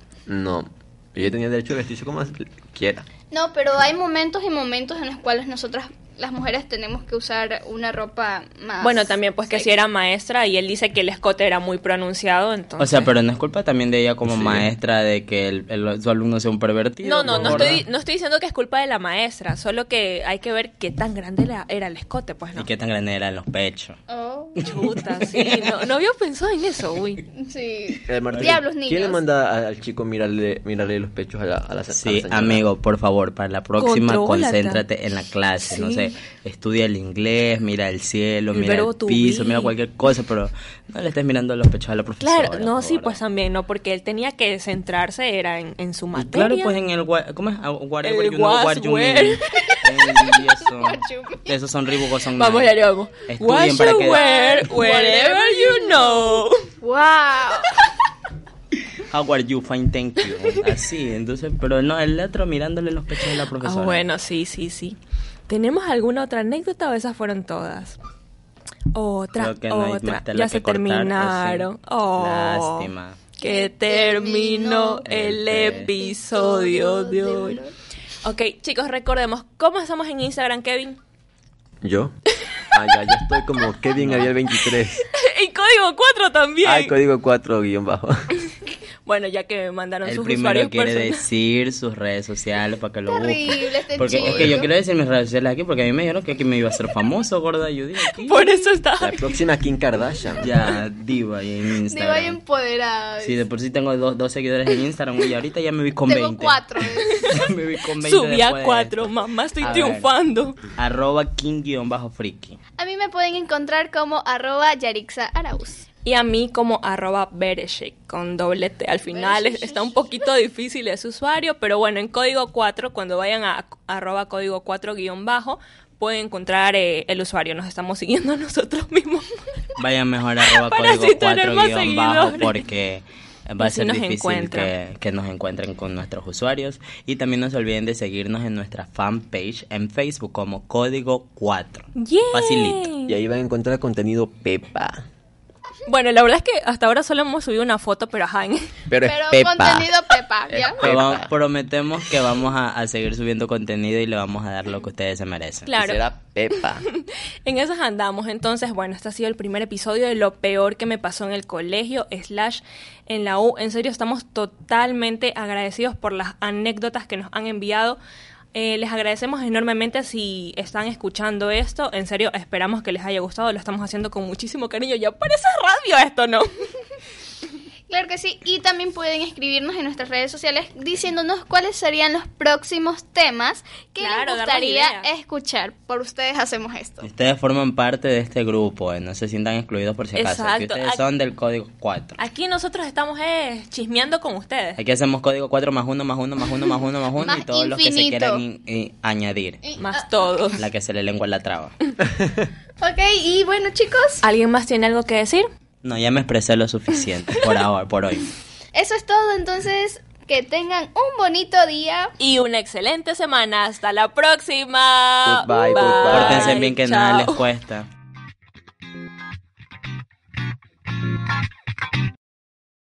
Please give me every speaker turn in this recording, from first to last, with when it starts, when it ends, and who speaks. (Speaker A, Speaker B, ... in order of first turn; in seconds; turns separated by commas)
Speaker A: 0.3-3.1, Speaker B: 3.3-9.7, Speaker C: 8.8-13.1, Speaker D: 12.8-17.8, Speaker A: 14.3-14.6, Speaker C: 17.0-22.7, Speaker A: 17.3-17.8, Speaker D: 22.6-24.0, Speaker B: 24.1-24.6, Speaker C: 24.6-27.3, Speaker D: 24.6-25.6, Speaker B: 27.4-29.2, Speaker A: 28.1-32.6, Speaker D: 31.9-43.2, Speaker C: 33.8-34.8, Speaker C: 35.6-36.1, Speaker C: 38.5-39.7, Speaker C: 42.2-46.7, Speaker D: 46.2-54.3, Speaker C: 48.0-49.9, Speaker B: 50.3-51.5, Speaker C: 52.4-56.6, Speaker B: 54.1-57.8, Speaker D: 59.1-64.0, Speaker C: 63.6-68.0, Speaker C: 68.9-77.6, Speaker D: 69.4-73.2, Speaker B: 73.4-75.1, Speaker D: 75.0-75.9, Speaker B: 76.0-77.7, Speaker C: 78.2-81.0, Speaker A: 81.8-82.2, Speaker A: 82.7-85.1, Speaker D: 84.0-84.3, Speaker C: 85.1-87.0, Speaker A: 86.6-88.3, Speaker C: 89.0-91.2, Speaker D: 90.0-98.5, Speaker B: 93.1-94.7, Speaker A: 94.1-94.6, Speaker C: 98.1-99.4, Speaker A: 99.0-100.5, Speaker D: 100.4-102.4, Speaker B: 101.9-103.4, Speaker D: 103.2-110.1, Speaker B: 106.0-107.4, Speaker C: 107.2-107.5, Speaker C: 108.0-110.6, Speaker D: 110.7-112.6, Speaker B: 112.8-115.9, Speaker C: 116.0-129.4, Speaker B: 119.1-120.2, Speaker D: 129.8-142.9, Speaker C: 130.5-132.6, Speaker C: 133.6-134.7, Speaker C: 141.9-143.2, Speaker A: 143.1-145.0, Speaker C: 145.9-148.7, Speaker A: 148.9-149.9, Speaker B: 149.0-150.8, Speaker D: 150.5-155.7, Speaker A: 150.7-151.3, Speaker C: 155.7-156.0, Speaker A: 155.7-156.9, Speaker C: 156.8-168.0, Speaker C: 168.5-176.5, Speaker B: 177.9-187.1, Speaker C: 184.0-185.1, Speaker D: 187.0-192.2, Speaker C: 190.2-191.0, Speaker C: 192.2-194.8, Speaker D: 194.8-199.7, Speaker B: 197.2-198.4, Speaker B: 199.6-200.1, Speaker C: 199.8-200.6, Speaker D: 200.6-201.8, Speaker A: 202.2-202.4, Speaker B: 202.8-204.2, Speaker C: 204.2-205.5, Speaker D: 205.8-208.3, Speaker B: 208.7-212.1, Speaker C: 212.2-217.4, Speaker A: 215.2-216.6, Speaker D: 216.1-217.9